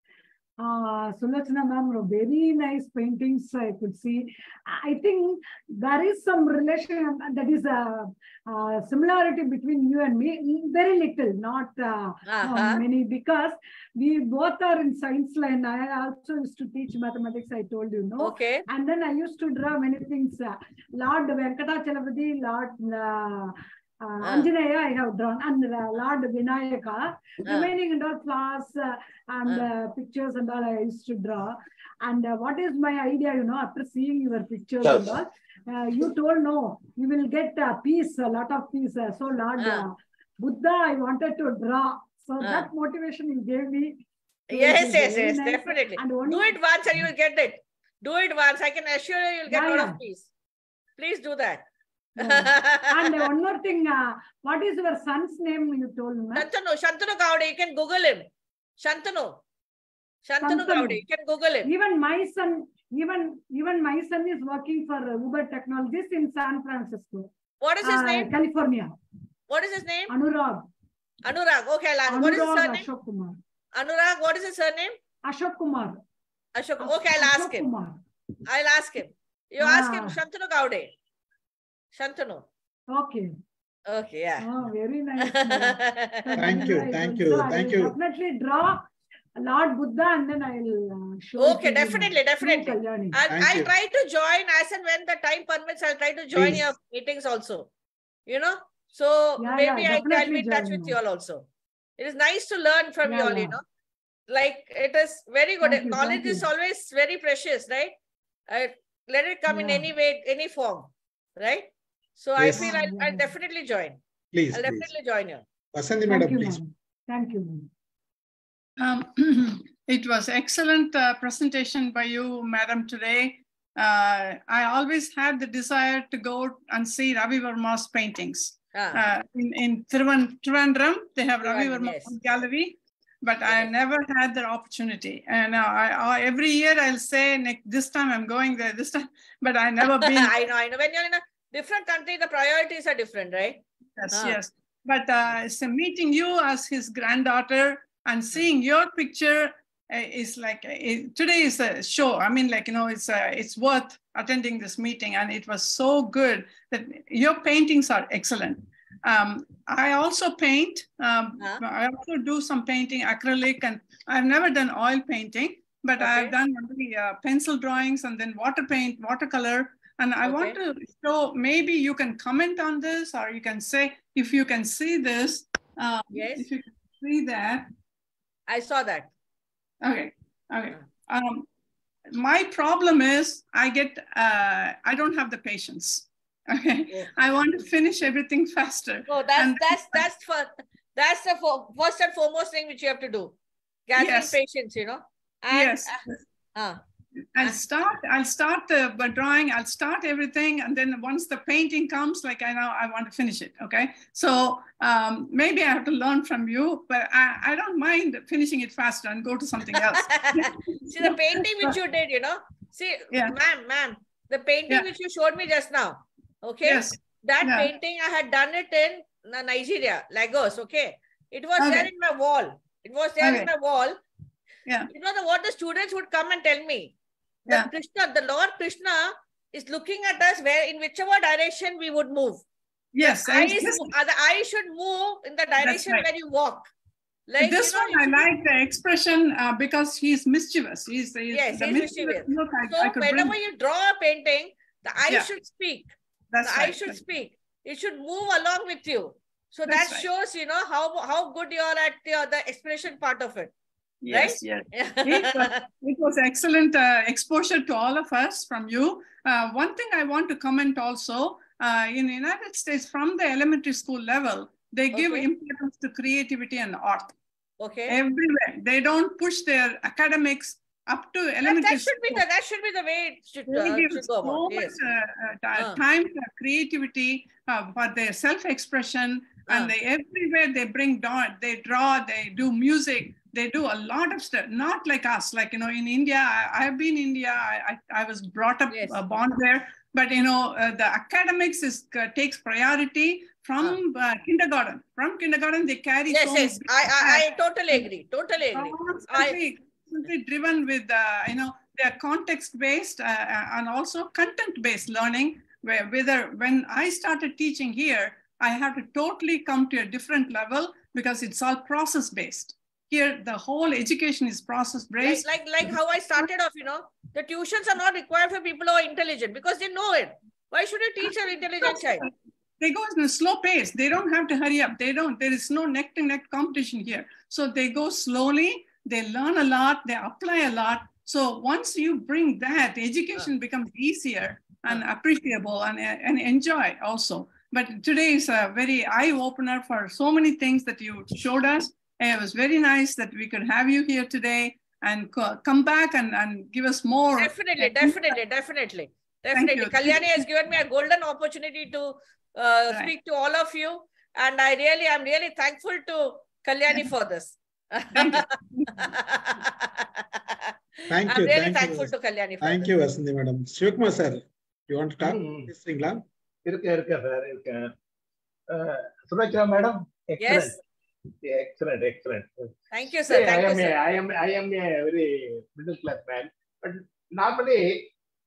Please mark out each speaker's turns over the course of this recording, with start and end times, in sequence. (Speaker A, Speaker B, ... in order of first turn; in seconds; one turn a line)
Speaker A: 0.6-43.9
Speaker B: 12.3-12.8
Speaker B: 18.2-18.6
Speaker B: 24.2-24.5
Speaker B: 27.4-27.7
Speaker B: 39.6-39.9
Speaker B: 42.4-42.7
Speaker B: 44.5-50.3
Speaker A: 44.5-46.6
Speaker A: 49.5-50.0
Speaker B: 51.0-51.6
Speaker A: 52.2-56.5
Speaker B: 52.2-53.2
Speaker B: 56.3-58.3
Speaker B: 58.8-59.4
Speaker B: 60.2-61.7
Speaker A: 60.4-61.0
Speaker A: 61.6-67.3
Speaker B: 67.6-68.3
Speaker A: 67.8-68.9
Speaker B: 69.5-70.1
Speaker A: 70.1-70.7
Speaker B: 71.2-72.9
Speaker A: 72.1-73.4
Speaker B: 73.7-75.0
Speaker A: 75.3-76.0
Speaker B: 76.5-77.7
Speaker A: 76.8-78.0
Speaker B: 78.5-80.9
Speaker A: 79.6-80.2
Speaker B: 81.9-82.4
Speaker A: 82.9-83.3
Speaker B: 83.9-84.5
Speaker A: 84.4-88.8
Speaker B: 85.2-86.6
Speaker C: 86.4-87.9
Speaker A: 89.4-93.2
Speaker B: 91.4-97.7
Speaker C: 93.3-93.7
Speaker C: 96.3-96.6
Speaker B: 98.3-101.4
Speaker A: 99.4-101.0
Speaker B: 102.0-103.6
Speaker A: 103.0-103.6
Speaker B: 104.3-107.9
Speaker A: 105.6-106.5
Speaker B: 108.5-114.0
Speaker A: 109.5-109.8
Speaker C: 112.4-112.7
Speaker A: 112.5-113.3
Speaker C: 114.3-114.9
Speaker B: 114.5-115.4
Speaker C: 115.7-116.6
Speaker A: 116.1-117.7
Speaker D: 118.8-140.3
Speaker B: 128.7-129.0
Speaker B: 131.4-132.2
Speaker B: 133.4-133.7
Speaker B: 139.8-143.6
Speaker D: 144.0-177.7
Speaker B: 144.1-144.4
Speaker B: 166.0-166.3
Speaker B: 170.2-170.6
Speaker B: 176.1-176.4
Speaker B: 178.5-179.1
Speaker D: 179.8-181.4
Speaker D: 182.1-190.0
Speaker B: 189.1-193.3
Speaker B: 193.9-196.0
Speaker D: 193.9-194.3
Speaker D: 195.5-196.2
Speaker B: 196.5-196.8
Speaker D: 197.4-211.7
Speaker B: 210.0-224.0
Speaker D: 216.6-217.7
Speaker D: 221.6-221.9
Speaker D: 223.2-223.5
Speaker B: 224.9-226.9
Speaker B: 227.5-232.4
Speaker D: 232.9-233.9
Speaker B: 233.0-236.7
Speaker D: 235.6-236.1
Speaker B: 237.3-238.3
Speaker D: 237.4-243.3
Speaker B: 241.3-245.9
Speaker D: 246.3-247.0
Speaker B: 246.4-253.5
Speaker D: 249.7-250.1
Speaker D: 254.0-267.1
Speaker B: 254.1-255.6
Speaker B: 264.9-265.3
Speaker B: 267.6-267.9
Speaker D: 267.9-272.2
Speaker B: 271.4-274.8
Speaker D: 273.4-297.2
Speaker B: 288.7-289.0
Speaker B: 296.1-299.4
Speaker D: 298.5-315.8
Speaker B: 315.0-322.0
Speaker D: 321.6-348.1
Speaker B: 347.1-360.5
Speaker D: 349.3-350.3
Speaker D: 357.9-358.9
Speaker C: 360.9-366.0
Speaker B: 361.1-362.7
Speaker E: 365.0-365.5
Speaker E: 366.4-367.7
Speaker E: 368.5-370.6
Speaker B: 370.2-370.6
Speaker E: 371.2-377.9
Speaker B: 372.7-373.7